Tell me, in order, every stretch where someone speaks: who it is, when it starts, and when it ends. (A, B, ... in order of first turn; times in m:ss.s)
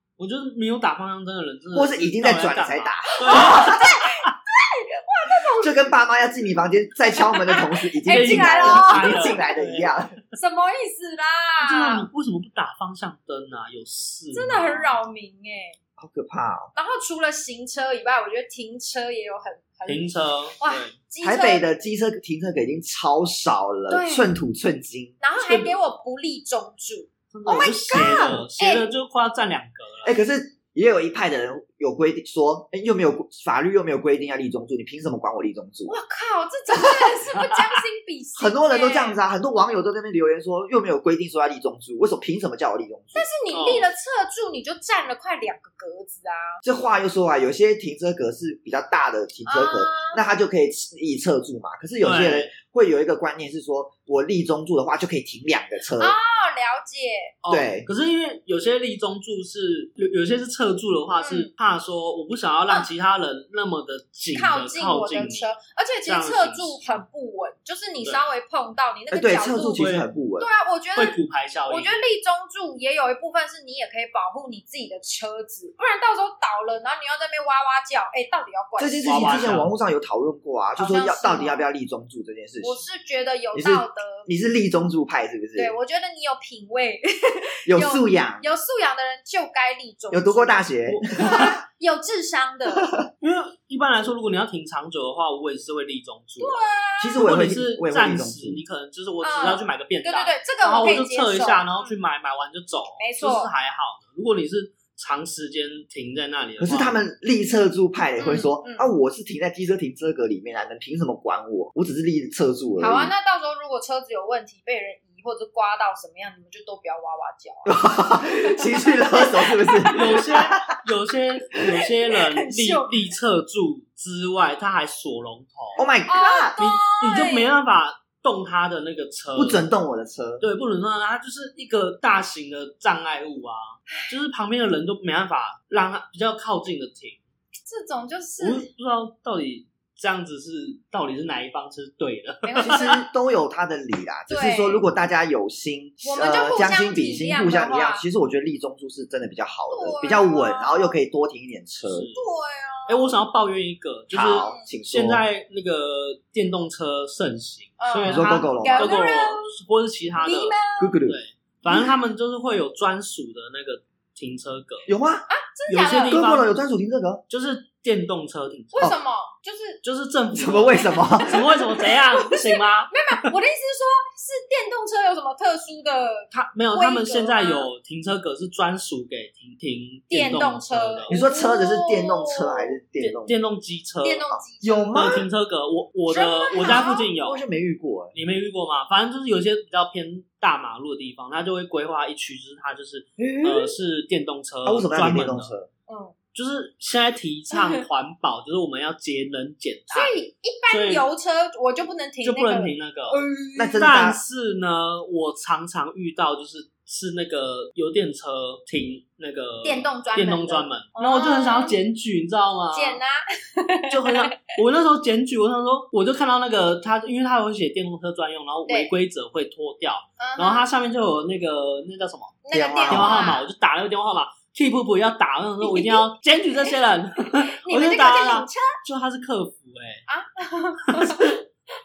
0:00.2-0:03.7 A
0:01.7-0:03.9 B
0:03.2-0:05.7 C
0:05.6-0:10.1 B
0:07.1-0:09.4 C
0:08.1-0:10.3 A
0:10.3-0:12.1 C
0:11.6-0:15.0 A
0:14.3-0:15.8 C
0:16.0-0:16.7 B
0:16.8-0:21.6 C
0:19.9-0:21.0 A
0:21.2-0:25.2 B
0:23.9-0:24.3 C
0:25.2-0:27.1 C
0:25.4-0:25.8 A
0:27.3-0:30.2 A
0:27.5-0:28.4 B
0:28.6-0:28.9 C
0:30.0-0:35.9 B
0:35.9-0:39.2 C
0:38.4-0:43.3 B
0:43.2-0:46.6 C
0:43.5-0:43.9 A
0:46.6-0:56.2 B
0:49.5-0:50.2 C
0:52.0-0:52.5 A
0:56.0-0:57.3 C
0:57.4-1:05.5 A
0:57.5-0:57.9 B
1:01.2-1:01.5 C
1:04.3-1:09.9 C
1:06.1-1:07.0 A
1:08.0-1:08.3 A
1:09.1-1:10.5 B
1:09.8-1:10.1 A
1:10.4-1:11.2 C
1:11.0-1:12.0 A
1:11.7-1:19.6 C
1:18.8-1:22.8 B
1:19.0-1:19.7 A
1:20.8-1:21.7 C
1:22.6-1:24.3 C
1:23.5-1:25.8 B
1:25.6-1:30.6 C
1:27.7-1:28.5 B
1:30.1-1:31.6 B
1:30.9-1:31.6 A
1:31.2-1:32.9 C
1:32.8-1:33.1 B
1:33.2-1:36.6 A
1:36.4-1:37.2 C
1:37.0-1:38.6 B
1:37.2-1:47.0 A
1:39.2-1:42.0 C
1:43.0-1:43.5 C
1:46.6-1:53.1 B
1:48.2-1:48.9 C
1:52.8-2:00.2 C
1:57.6-2:00.6 B
2:00.0-2:05.9 A
2:01.6-2:02.9 C
2:05.8-2:06.6 B
2:06.1-2:07.5 C
2:06.6-2:09.6 A
2:09.4-2:10.4 B
2:10.4-2:17.2 A
2:17.7-2:18.7 C
2:18.4-2:23.0 A
2:22.4-2:23.0 C
2:22.6-2:32.1 B
2:24.3-2:24.8 C
2:26.0-2:28.0 C
2:29.7-2:31.0 C
2:31.9-2:32.3 A
2:32.2-2:33.1 C
2:32.9-2:44.9 A
2:34.1-2:35.2 B
2:34.4-2:34.7 C
2:37.8-2:39.5 C
2:38.0-2:39.0 B
2:40.2-2:41.0 C
2:40.8-2:41.2 B
2:44.9-2:45.3 B
2:45.3-2:46.3 C
2:45.7-2:46.5 A
2:46.1-2:47.2 B
2:47.3-2:48.9 A
2:48.7-2:49.8 C
2:49.8-2:53.3 A
2:50.3-2:51.4 B
2:51.2-2:57.7 C
2:56.3-3:01.2 A
3:00.1-3:02.7 C
3:01.1-3:03.4 B
3:03.0-3:04.3 A
3:04.0-3:05.2 C
3:04.3-3:05.3 B
3:04.9-3:07.4 A
3:06.1-3:07.1 C
3:06.6-3:08.2 B
3:08.1-3:15.5 A
3:13.2-3:13.7 B
3:14.6-3:15.7 B
3:15.9-3:16.2 C
3:16.4-3:21.1 A
3:17.5-3:17.8 C
3:19.9-3:23.9 C
3:22.2-3:23.2 A
3:23.6-3:24.2 B
3:23.8-3:33.0 A
3:29.6-3:31.8 C
3:32.7-3:34.4 C
3:33.9-3:50.0 A
3:40.2-3:40.7 C
3:42.4-3:43.5 C
3:42.5-3:43.3 B
3:45.6-3:46.7 C
3:47.4-3:48.8 C
3:50.1-3:51.4 C
3:50.9-3:51.4 A